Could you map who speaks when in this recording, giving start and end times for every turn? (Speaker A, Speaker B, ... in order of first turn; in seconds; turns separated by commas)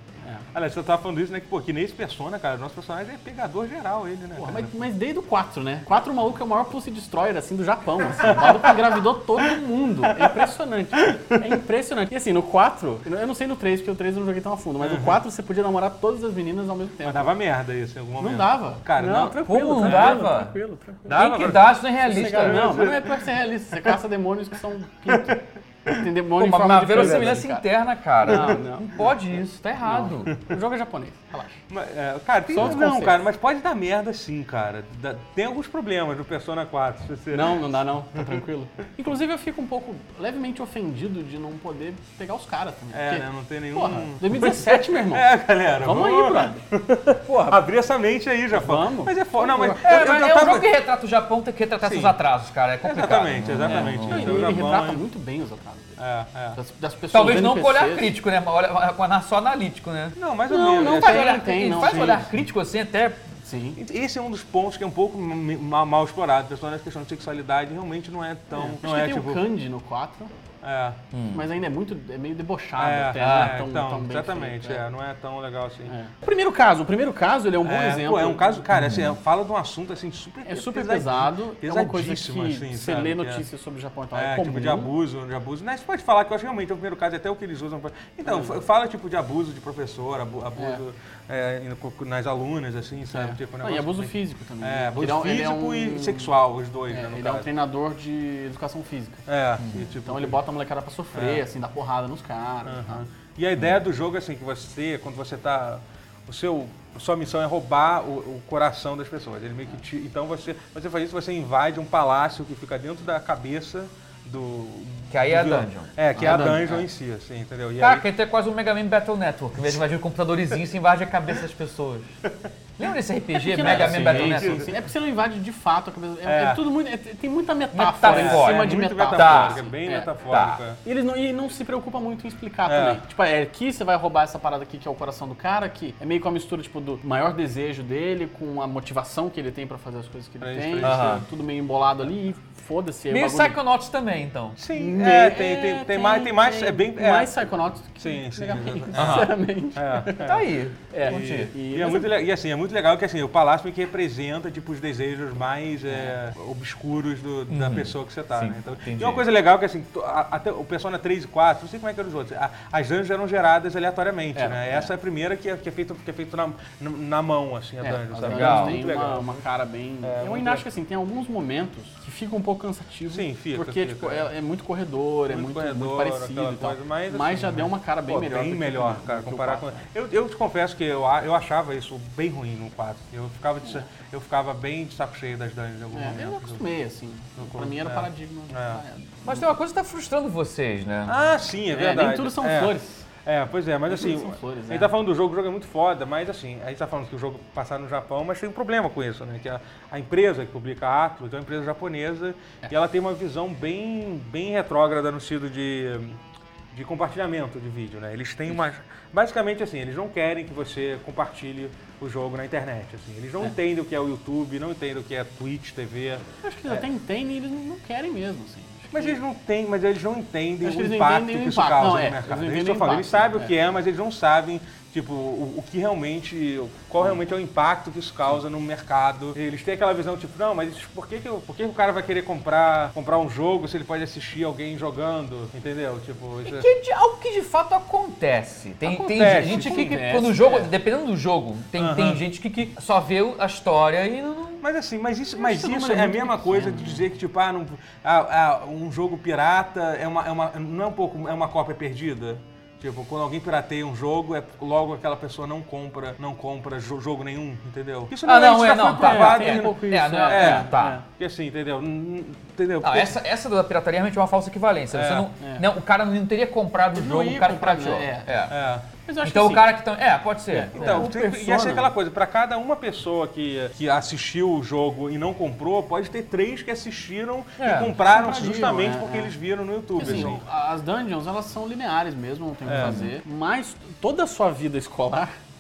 Speaker A: 0.5-4.8, Speaker B: 4.4-17.3, Speaker A: 8.2-11.5, Speaker A: 14.8-15.2, Speaker A: 17.0-20.3, Speaker B: 18.2-21.4, Speaker C: 19.4-20.6, Speaker A: 21.1-23.9, Speaker C: 21.1-22.7, Speaker B: 22.0-27.7, Speaker A: 25.1-26.0, Speaker C: 26.4-30.4, Speaker A: 26.9-27.3, Speaker B: 28.2-29.1, Speaker B: 29.8-31.6, Speaker A: 31.7-38.4, Speaker B: 32.5-33.2, Speaker B: 37.3-45.3, Speaker A: 42.9-50.7, Speaker B: 45.8-46.6, Speaker B: 47.2-47.6, Speaker B: 48.5-49.8, Speaker C: 49.8-54.5, Speaker A: 51.8-52.2, Speaker A: 52.8-55.0, Speaker B: 53.7-56.0, Speaker A: 56.0-56.6, Speaker B: 56.5-58.1, Speaker C: 57.1-63.3, Speaker A: 60.2-62.3, Speaker B: 60.5-62.3, Speaker B: 63.4-63.8, Speaker A: 63.8-69.5, Speaker B: 68.5-70.3, Speaker A: 70.6-71.0, Speaker C: 71.1-71.5, Speaker B: 71.3-74.8, Speaker A: 72.8-75.9, Speaker C: 73.2-73.6, Speaker B: 75.9-78.6, Speaker A: 77.6-83.5, Speaker C: 78.7-79.2, Speaker B: 80.5-84.9, Speaker A: 84.1-97.5, Speaker B: 88.2-88.6, Speaker B: 90.6-90.8, Speaker B: 93.1-96.4, Speaker B: 96.9-99.3, Speaker A: 99.3-100.4, Speaker C: 99.6-99.9, Speaker B: 100.0-103.0, Speaker A: 101.1-101.4, Speaker A: 102.7-118.1, Speaker C: 115.1-116.5, Speaker B: 116.2-116.9, Speaker C: 117.8-122.2, Speaker C: 122.8-124.7, Speaker B: 123.3-130.1, Speaker A: 123.5-124.8, Speaker A: 126.2-126.6, Speaker C: 127.7-129.6, Speaker A: 128.0-130.8, Speaker C: 130.3-130.6, Speaker B: 130.8-143.6, Speaker A: 132.7-133.0, Speaker A: 140.4-141.2, Speaker C: 140.8-141.2, Speaker C: 143.1-144.6, Speaker A: 144.6-147.4, Speaker B: 144.7-150.3, Speaker A: 148.0-150.5, Speaker C: 148.9-149.3, Speaker C: 150.2-151.5, Speaker B: 150.9-152.1, Speaker A: 151.1-169.4, Speaker B: 155.9-156.1, Speaker C: 157.5-159.3, Speaker B: 164.3-164.9, Speaker B: 167.8-179.8, Speaker C: 168.3-168.8, Speaker A: 170.0-170.7, Speaker A: 173.1-174.3, Speaker A: 175.3-186.6, Speaker B: 185.9-189.5, Speaker A: 187.4-188.8, Speaker C: 189.2-191.2, Speaker A: 191.1-206.2, Speaker B: 191.7-193.1, Speaker B: 193.9-194.9, Speaker A: 206.7-216.8, Speaker B: 216.4-219.2, Speaker A: 218.9-236.7, Speaker B: 220.6-223.5, Speaker C: 236.4-244.6, Speaker B: 238.8-240.7, Speaker A: 239.0-240.1, Speaker A: 241.8-242.2, Speaker A: 244.6-263.2, Speaker B: 245.3-247.1, Speaker C: 258.2-261.0, Speaker B: 258.7-261.1, Speaker C: 262.8-268.5, Speaker A: 264.9-265.3, Speaker B: 265.4-265.6, Speaker B: 266.9-268.5, Speaker A: 268.5-268.9, Speaker B: 269.0-269.7, Speaker C: 269.2-271.1, Speaker B: 270.5-271.9, Speaker A: 270.7-280.4, Speaker B: 277.6-279.3, Speaker B: 280.0-285.3, Speaker C: 280.0-280.4, Speaker A: 282.7-283.1, Speaker C: 282.8-283.1